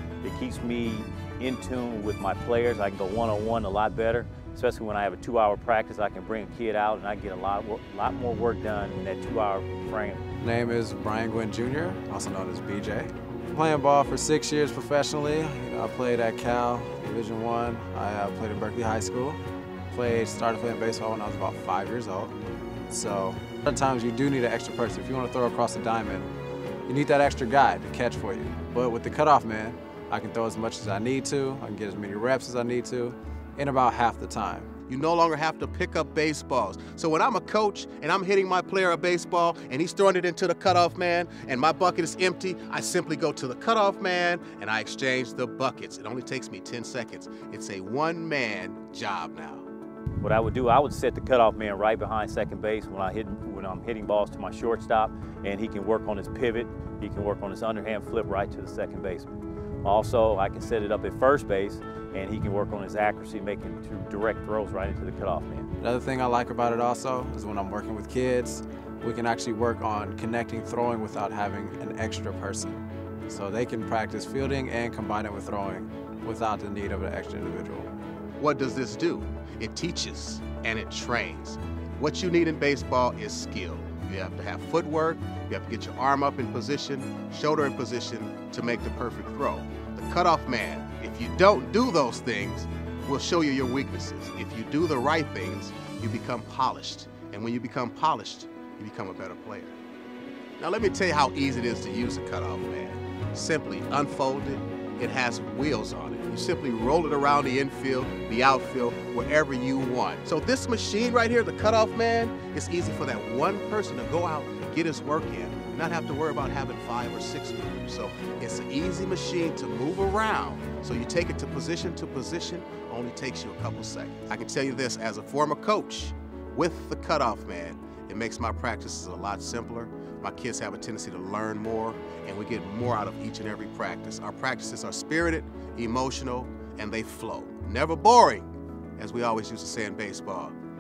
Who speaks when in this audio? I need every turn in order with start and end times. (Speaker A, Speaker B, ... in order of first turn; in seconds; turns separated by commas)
Speaker A: 0.2-10.2, Speaker B: 10.4-22.4, Speaker B: 22.9-26.3, Speaker B: 26.9-34.7, Speaker C: 34.9-49.6, Speaker A: 50.2-59.3, Speaker A: 59.8-65.7, Speaker B: 65.8-77.9, Speaker C: 78.4-99.8, Speaker C: 100.6-140.6